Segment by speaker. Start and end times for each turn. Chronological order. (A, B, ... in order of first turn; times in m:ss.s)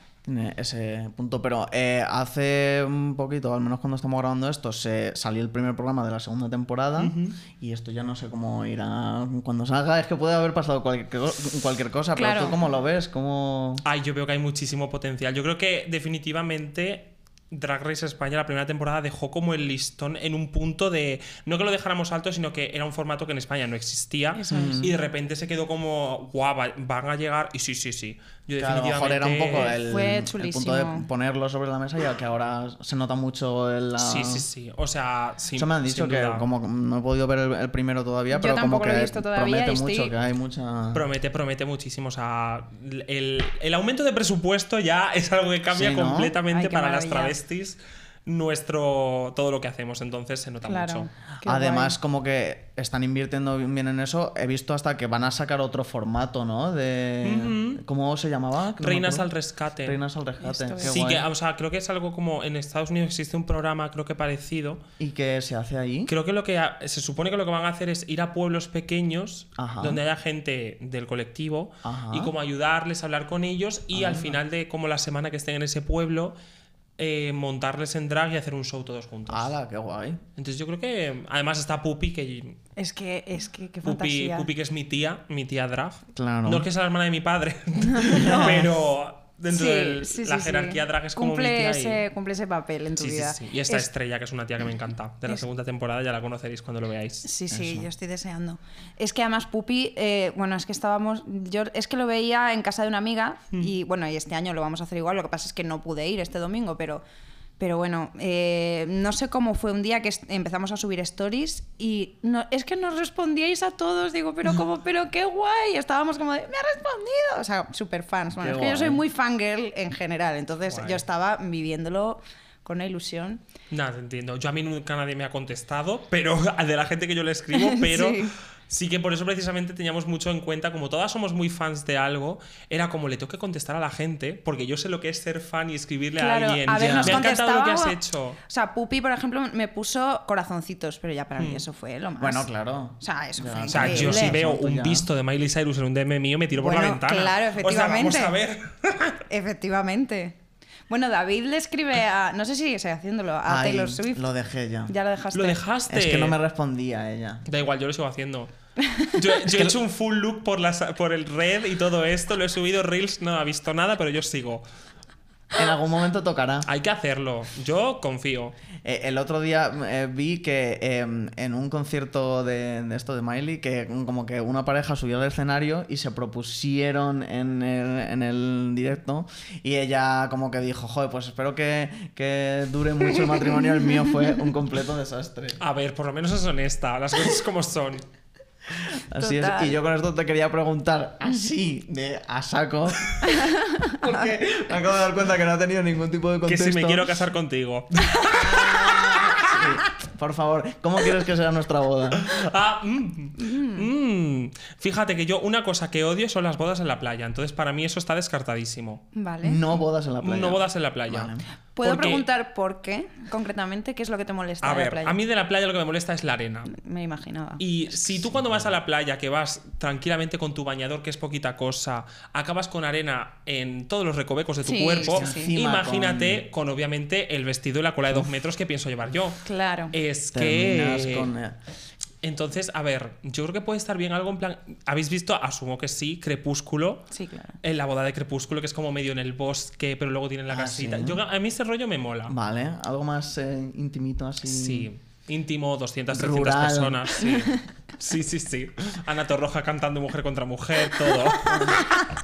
0:00.2-0:13.8 A
0:07.0-0:07.4 B
0:12.1-0:12.6 C
0:13.8-0:29.8 B
0:24.3-0:24.9 C
0:24.5-0:24.9 A
0:28.6-0:34.5 A
0:29.5-0:31.1 C
0:34.0-0:36.4 B
0:35.6-0:41.0 A
0:38.3-0:40.1 C
0:40.9-0:51.1 B
0:45.7-0:46.4 A
0:46.5-0:47.4 C
0:50.6-0:52.0 C
0:51.4-0:59.3 A
0:57.2-0:57.8 B
0:58.8-1:00.0 B
0:59.8-1:01.2 A
1:00.4-1:01.0 C
1:00.8-1:04.8 B
1:05.0-1:06.1 A
1:06.1-1:16.3 B
1:09.6-1:10.0 A
1:11.8-1:12.3 A
1:13.9-1:14.4 A
1:17.0-1:19.5 B
1:19.3-1:20.2 A
1:20.4-1:22.6 B
1:22.8-1:24.5 C
1:23.8-1:32.0 B
1:26.1-1:26.7 A
1:27.9-1:28.6 C
1:28.1-1:28.7 A
1:29.5-1:33.9 C
1:33.0-1:37.3 B
1:37.2-1:47.0 C
1:37.5-1:37.9 A
1:47.6-2:03.4 C
1:58.4-1:59.0 A
2:00.7-2:01.0 B
2:03.7-2:18.4 B
2:07.5-2:08.3 C
2:16.2-2:22.5 C
2:16.7-2:17.2 A
2:21.4-2:21.6 B
2:22.2-2:25.1 A
2:23.0-2:24.4 C
2:23.7-2:29.2 B
2:26.5-2:28.3 C
2:29.3-2:30.4 C
2:30.9-2:34.2 C
2:33.4-2:34.9 A
2:34.9-2:35.6 C
2:35.3-2:36.4 B
2:35.9-2:37.4 A
2:37.4-2:38.5 B
2:38.9-2:39.1 C
2:39.0-2:44.6 B
2:39.4-2:39.8 A
2:45.5-2:46.7 A
2:46.6-2:48.6 B
2:48.8-3:05.6 A
3:03.2-3:04.1 C
3:05.6-3:08.0 B
3:09.0-3:13.2 A
3:09.1-3:09.8 C
3:13.2-3:14.0 C
3:13.8-3:17.1 A
3:16.4-3:19.8 B
3:18.3-3:22.4 A
3:22.1-3:29.0 B
3:23.4-3:23.9 C
3:29.1-3:29.6 C
3:29.4-3:31.4 A
3:30.2-3:32.2 B
3:31.8-3:35.2 C
3:34.6-3:36.7 B
3:36.7-3:37.6 C
3:37.6-3:49.4 B
3:38.2-3:38.7 A
3:44.6-3:45.5 C
3:45.0-3:46.4 A
3:49.4-3:49.9 C
3:49.9-3:51.3 B
3:50.3-3:51.6 A
3:52.2-3:57.1 B
3:57.1-3:57.6 C
3:57.6-4:02.3 B
4:00.5-4:01.2 A
4:02.3-4:04.9 A
4:04.4-4:12.0 B
4:06.1-4:07.2 A
4:07.2-4:07.6 C
4:11.4-4:11.8 A